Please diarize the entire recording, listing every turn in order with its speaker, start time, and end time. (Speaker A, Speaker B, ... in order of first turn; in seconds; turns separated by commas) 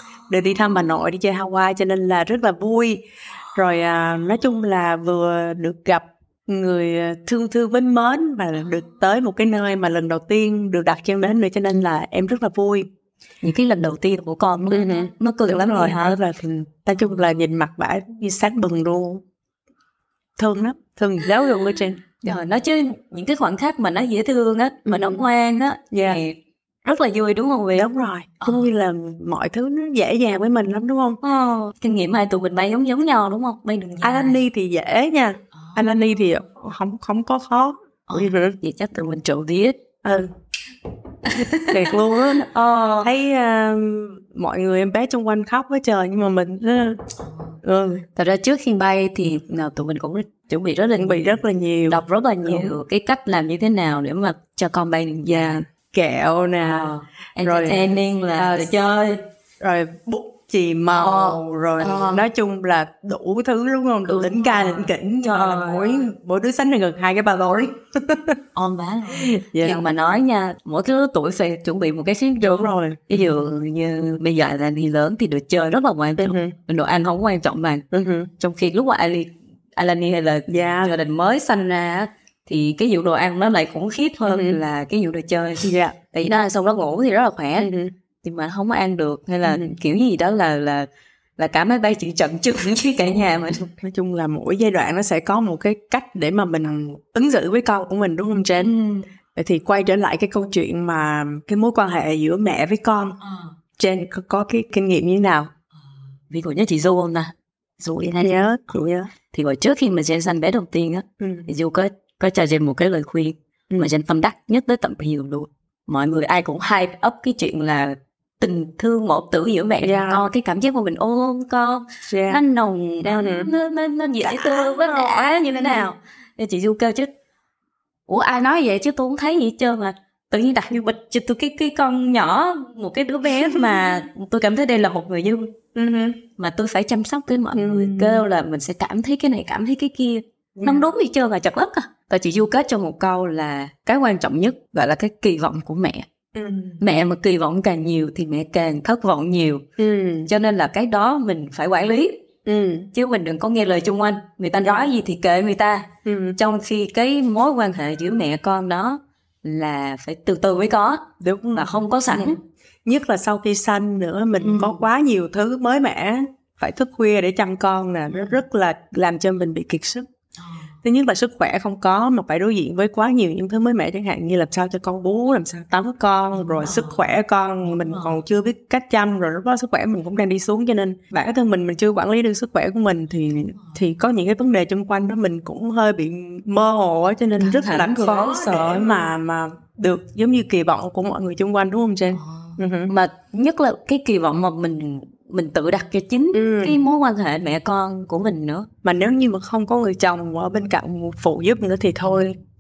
Speaker A: 0.3-12.9, Speaker B: 13.4-16.2, Speaker A: 14.7-19.2, Speaker A: 20.4-22.1, Speaker B: 22.2-27.9, Speaker A: 24.9-25.2, Speaker A: 27.8-31.2, Speaker B: 28.4-28.7, Speaker B: 31.2-34.4, Speaker A: 34.0-38.6, Speaker B: 35.6-36.0, Speaker B: 38.1-39.8, Speaker A: 40.0-40.3, Speaker B: 41.3-43.1, Speaker A: 41.4-47.0, Speaker A: 47.6-48.1, Speaker B: 48.1-55.6, Speaker A: 51.0-52.7, Speaker A: 55.4-58.7, Speaker B: 56.7-59.3, Speaker A: 59.6-68.4, Speaker B: 60.9-62.3, Speaker B: 64.1-66.0, Speaker B: 68.5-77.9, Speaker A: 69.1-69.8, Speaker A: 72.4-73.2, Speaker A: 76.2-76.5, Speaker A: 77.9-78.3, Speaker B: 78.4-87.7, Speaker A: 80.5-80.9, Speaker A: 84.3-84.6, Speaker A: 85.6-86.0, Speaker A: 87.6-87.9, Speaker B: 88.2-90.9, Speaker A: 89.4-89.8, Speaker B: 91.4-93.7, Speaker A: 93.7-98.7, Speaker B: 98.6-99.1, Speaker A: 99.3-103.2, Speaker A: 103.8-105.5, Speaker B: 106.3-108.5, Speaker A: 108.2-109.1, Speaker B: 109.3-127.1, Speaker A: 111.2-111.5, Speaker A: 119.8-120.2, Speaker A: 122.1-122.4, Speaker A: 123.0-123.5, Speaker A: 124.2-125.9, Speaker B: 128.1-135.6, Speaker A: 133.4-133.8, Speaker A: 135.7-136.2, Speaker B: 136.4-146.1, Speaker A: 137.5-138.2, Speaker A: 140.6-140.9, Speaker A: 146.3-146.8, Speaker B: 146.8-149.6, Speaker A: 149.8-150.3, Speaker B: 150.3-152.2, Speaker A: 152.4-152.9, Speaker B: 152.9-162.4, Speaker A: 156.1-156.4, Speaker A: 161.2-170.1, Speaker B: 164.4-164.8, Speaker B: 168.1-168.4, Speaker B: 170.4-170.7, Speaker A: 170.8-192.9, Speaker B: 176.5-177.0, Speaker B: 177.7-178.2, Speaker B: 187.4-189.0, Speaker B: 192.2-198.7, Speaker A: 196.3-196.8, Speaker A: 198.8-202.4